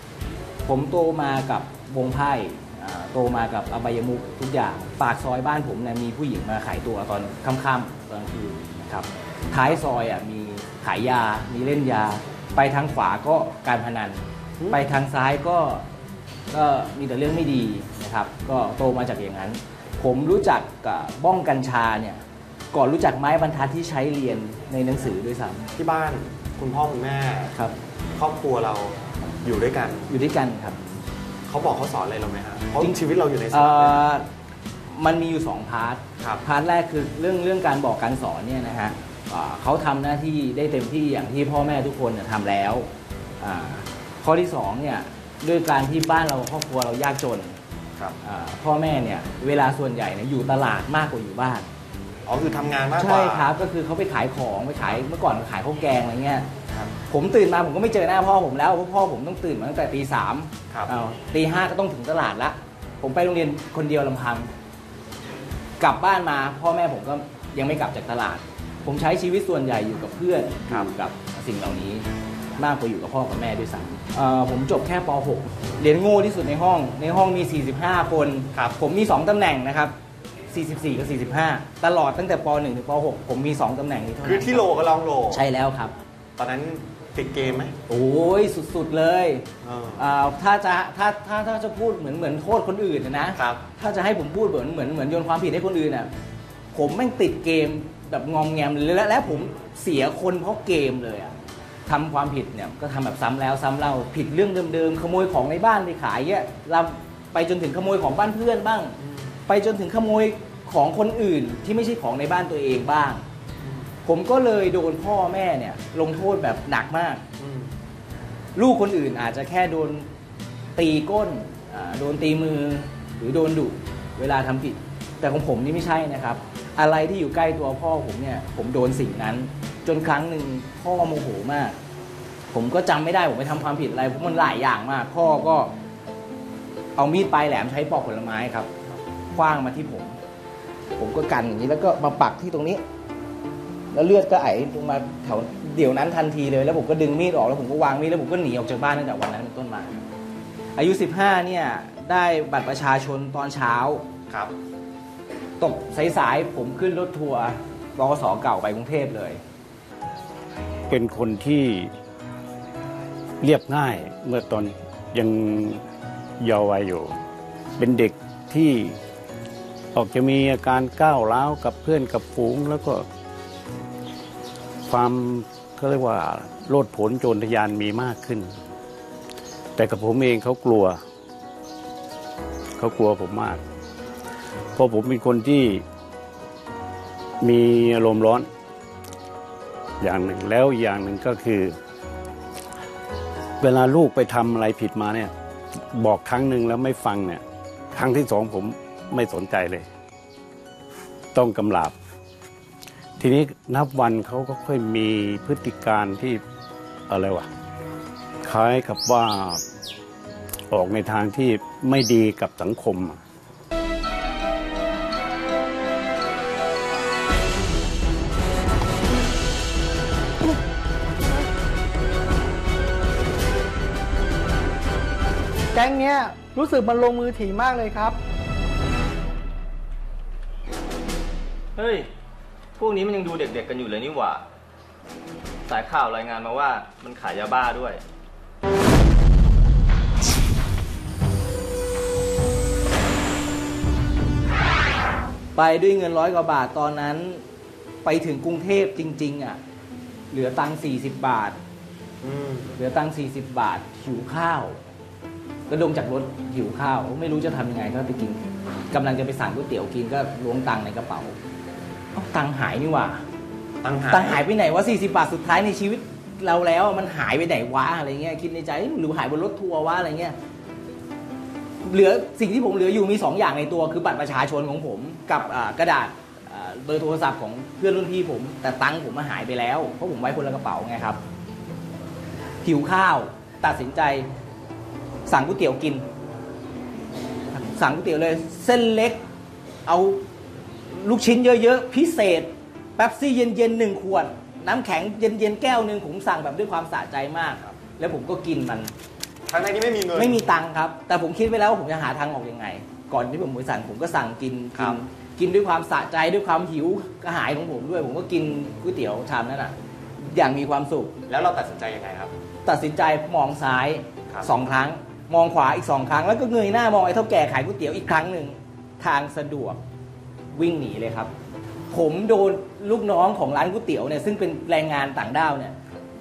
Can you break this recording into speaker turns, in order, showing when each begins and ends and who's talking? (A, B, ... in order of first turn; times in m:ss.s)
0:00.6-0:15.8 A
0:16.5-0:22.2 A
0:22.7-0:25.7 A
0:25.8-0:27.5 B
0:28.2-0:30.1 B
0:30.1-0:30.8 A
0:31.5-0:34.0 B
0:33.5-0:34.2 A
0:34.9-0:42.9 A
0:43.4-0:47.6 A
0:48.2-0:51.7 A
0:52.2-0:53.5 B
0:53.0-0:56.5 A
0:57.1-1:04.5 A
1:05.8-1:12.1 A
1:12.6-1:19.9 A
1:20.5-1:24.7 A
1:24.2-1:25.4 B
1:25.3-1:25.9 A
1:26.4-1:27.7 B
1:27.9-1:29.4 A
1:29.6-1:30.0 B
1:30.0-1:36.1 A
1:33.3-1:33.6 B
1:36.7-1:41.3 A
1:41.9-1:48.9 A
1:49.0-1:49.3 B
1:49.5-1:53.2 A
1:54.0-1:57.2 A
1:57.4-1:57.7 B
1:58.6-2:00.1 A
2:00.7-2:11.8 A
2:12.5-2:15.7 A
2:17.0-2:18.7 A
2:19.3-2:20.2 A
2:21.0-2:22.8 A
2:23.9-2:30.0 A
2:30.8-2:34.0 A
2:34.3-2:34.5 B
2:35.6-2:39.4 A
2:40.9-2:41.9 C
2:43.4-2:45.8 C
2:46.4-2:47.1 C
2:47.8-2:49.0 C
2:49.9-2:53.0 C
2:54.8-2:58.6 C
2:59.8-3:01.0 C
3:02.8-3:03.6 C
3:04.8-3:05.8 C
3:07.4-3:08.5 C
3:10.0-3:11.8 C
3:13.6-3:15.3 C
3:15.9-3:19.9 C
3:21.3-3:21.9 C
3:23.2-3:26.4 C
3:27.1-3:27.5 C
3:28.4-3:29.6 C
3:30.7-3:33.2 C
3:45.7-3:48.2 D
3:51.8-3:52.1 E
3:52.8-3:54.4 E
3:55.6-3:58.0 E
4:05.5-4:07.4 A
4:08.0-4:09.6 A
4:10.3-4:11.6 A
4:12.2-4:12.7 B
4:12.8-4:14.8 A
4:15.7-4:21.4 A
4:22.1-4:23.2 A
4:23.8-4:24.4 B
4:24.1-4:30.4 A
4:31.8-4:41.2 A
4:42.6-4:44.3 A
4:45.3-4:46.0 A
4:47.5-4:49.2 A
4:49.8-4:50.2 A
4:50.9-4:58.9 A
4:59.5-5:00.4 B
5:00.1-5:11.1 A
5:11.3-5:12.3 B
5:12.6-5:19.8 A
5:20.5-5:21.3 A
5:21.9-5:25.7 A